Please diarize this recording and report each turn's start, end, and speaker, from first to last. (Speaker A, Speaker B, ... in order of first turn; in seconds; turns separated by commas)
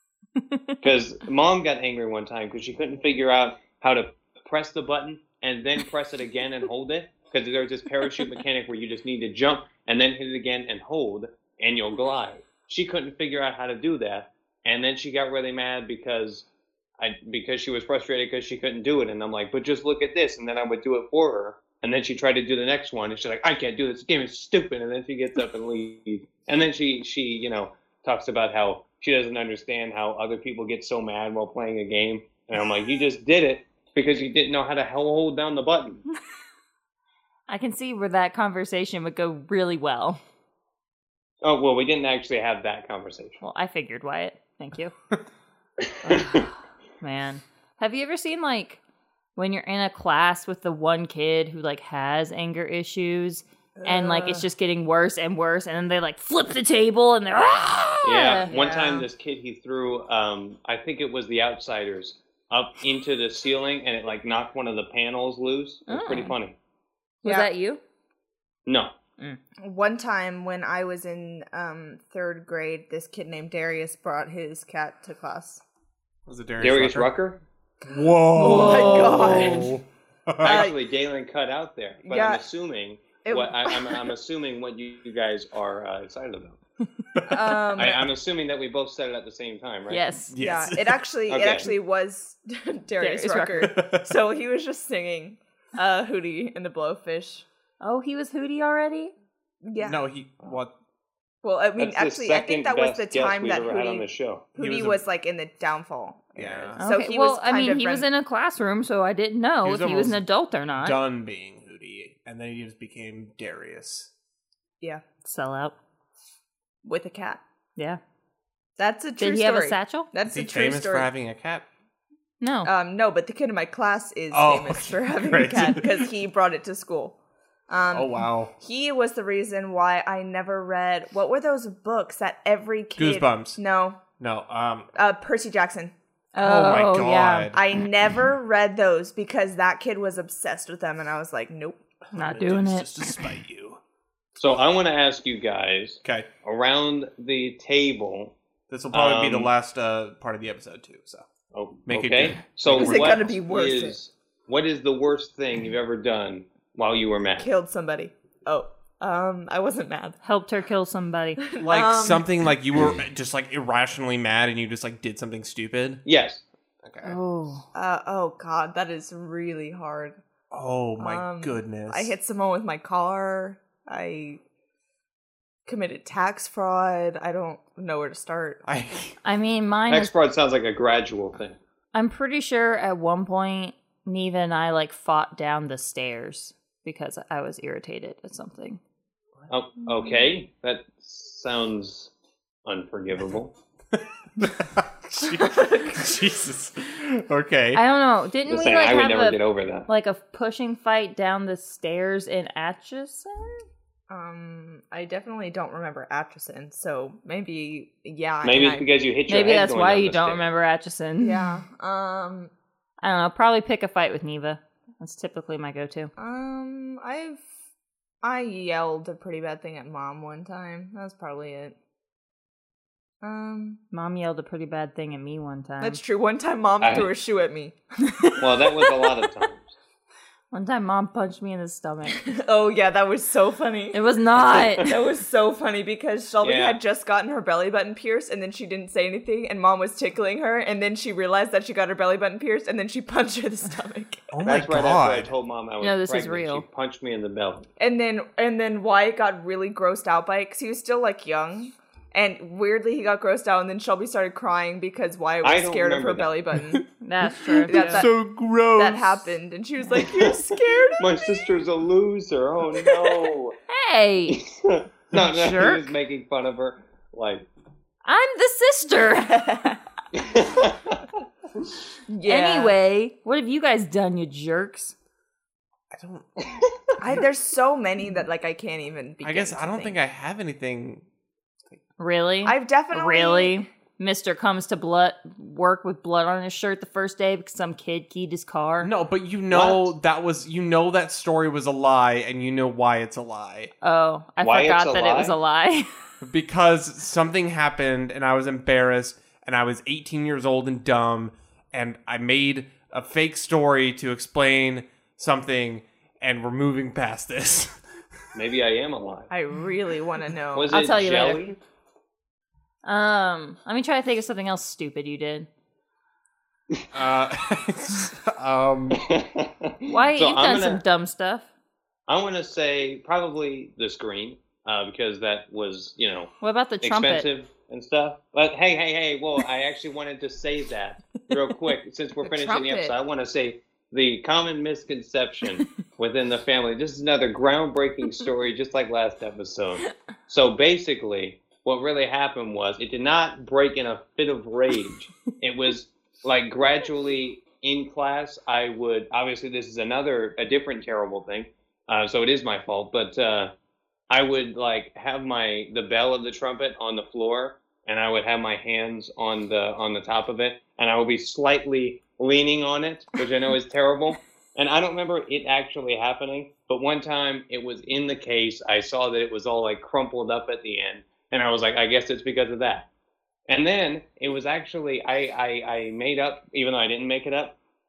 Speaker A: 0.8-16.4, Speaker A: 17.0-36.0, Speaker B: 37.5-40.2, Speaker A: 41.4-43.4, Speaker B: 43.4-44.9, Speaker A: 45.9-46.5, Speaker B: 46.0-48.8, Speaker B: 49.4-58.5, Speaker C: 53.8-54.5, Speaker A: 58.0-66.6, Speaker C: 58.5-59.1, Speaker B: 65.9-66.3, Speaker B: 67.2-67.8, Speaker C: 67.2-67.5, Speaker A: 68.7-68.9, Speaker C: 69.6-75.6, Speaker D: 76.3-77.1, Speaker A: 76.6-77.4, Speaker D: 77.8-80.7, Speaker C: 78.3-79.7, Speaker B: 78.4-79.2, Speaker A: 78.8-79.6, Speaker C: 80.4-80.8, Speaker A: 80.4-86.6, Speaker C: 82.1-82.4, Speaker C: 83.2-84.1, Speaker D: 87.2-87.6, Speaker C: 87.3-88.1, Speaker A: 87.8-90.0, Speaker B: 89.9-90.3, Speaker D: 90.3-91.0, Speaker C: 90.4-97.5, Speaker A: 91.3-91.7, Speaker B: 93.0-93.7, Speaker D: 93.6-94.1, Speaker B: 97.8-99.1, Speaker C: 99.6-100.0, Speaker D: 99.8-100.7, Speaker C: 101.4-108.1, Speaker A: 101.8-104.5, Speaker D: 104.6-105.0, Speaker D: 106.4-106.8, Speaker B: 106.8-111.0, Speaker D: 109.6-110.2, Speaker D: 110.8-114.1, Speaker B: 115.2-115.7, Speaker C: 116.8-117.4, Speaker C: 118.8-121.1, Speaker B: 119.2-120.1, Speaker D: 120.3-121.7, Speaker B: 122.4-122.7, Speaker C: 122.7-127.2, Speaker D: 124.3-126.1, Speaker C: 127.7-134.0, Speaker D: 127.9-128.5, Speaker D: 133.0-133.6, Speaker D: 134.2-134.9, Speaker C: 134.9-135.9, Speaker B: 136.3-137.5, Speaker D: 136.4-137.6, Speaker C: 137.5-141.8, Speaker D: 142.1-143.8, Speaker B: 142.1-143.3, Speaker A: 144.4-148.3, Speaker D: 148.7-151.3, Speaker A: 148.9-149.5, Speaker A: 151.5-157.5, Speaker D: 151.9-153.2, Speaker C: 152.7-154.0, Speaker C: 157.4-160.2, Speaker B: 160.2-161.4, Speaker C: 161.4-162.3, Speaker D: 161.6-166.0, Speaker A: 166.1-166.4, Speaker D: 166.8-167.2, Speaker B: 167.0-167.7, Speaker C: 167.7-170.2, Speaker D: 170.5-172.1, Speaker C: 171.0-174.4, Speaker C: 175.7-178.6, Speaker D: 178.7-179.2, Speaker B: 179.2-180.1, Speaker A: 179.9-181.6, Speaker B: 181.9-188.8, Speaker A: 189.5-192.1, Speaker A: 192.7-193.5, Speaker D: 194.4-197.8, Speaker B: 197.7-203.6, Speaker A: 198.5-199.9, Speaker C: 204.1-208.9, Speaker A: 208.4-210.5, Speaker B: 209.3-211.5, Speaker C: 211.2-212.5, Speaker B: 213.0-216.1, Speaker C: 216.2-217.4, Speaker C: 218.2-221.8, Speaker C: 223.2-223.8, Speaker B: 223.9-226.0, Speaker C: 225.8-228.3, Speaker A: 226.8-227.1, Speaker B: 228.1-228.4, Speaker A: 228.4-229.7, Speaker B: 230.5-232.3, Speaker C: 232.1-234.0, Speaker B: 233.9-234.9, Speaker A: 234.5-234.8, Speaker C: 234.8-244.3, Speaker A: 236.4-236.8, Speaker D: 244.3-245.3, Speaker A: 244.4-247.7, Speaker B: 245.8-246.7, Speaker C: 247.8-256.9, Speaker A: 255.4-256.3, Speaker B: 257.0-258.1, Speaker D: 257.6-259.3, Speaker C: 257.7-258.1, Speaker C: 258.8-261.4, Speaker A: 260.0-260.3, Speaker A: 261.0-263.6, Speaker C: 262.9-263.3, Speaker B: 263.7-264.4, Speaker A: 264.3-267.5, Speaker D: 265.1-265.6, Speaker B: 265.2-265.9, Speaker B: 268.1-269.8, Speaker C: 269.3-269.8, Speaker A: 270.1-271.0, Speaker C: 272.1-272.8, Speaker B: 272.3-274.9, Speaker D: 275.9-276.6, Speaker C: 277.0-280.0, Speaker D: 279.2-281.1, Speaker B: 282.0-288.9, Speaker C: 282.4-283.6, Speaker D: 288.8-293.7, Speaker A: 289.5-289.9, Speaker B: 293.8-295.9, Speaker A: 294.4-295.4, Speaker D: 296.2-307.8, Speaker A: 308.3-309.3, Speaker C: 309.3-310.8, Speaker A: 310.5-311.5, Speaker B: 310.7-311.6, Speaker B: 312.9-315.5, Speaker D: 316.9-319.0, Speaker A: 318.9-320.8, Speaker B: 319.9-321.5, Speaker A: 322.1-353.5, Speaker B: 326.4-327.3, Speaker C: 332.2-332.9, Speaker A: 354.1-372.9, Speaker A: 373.5-377.6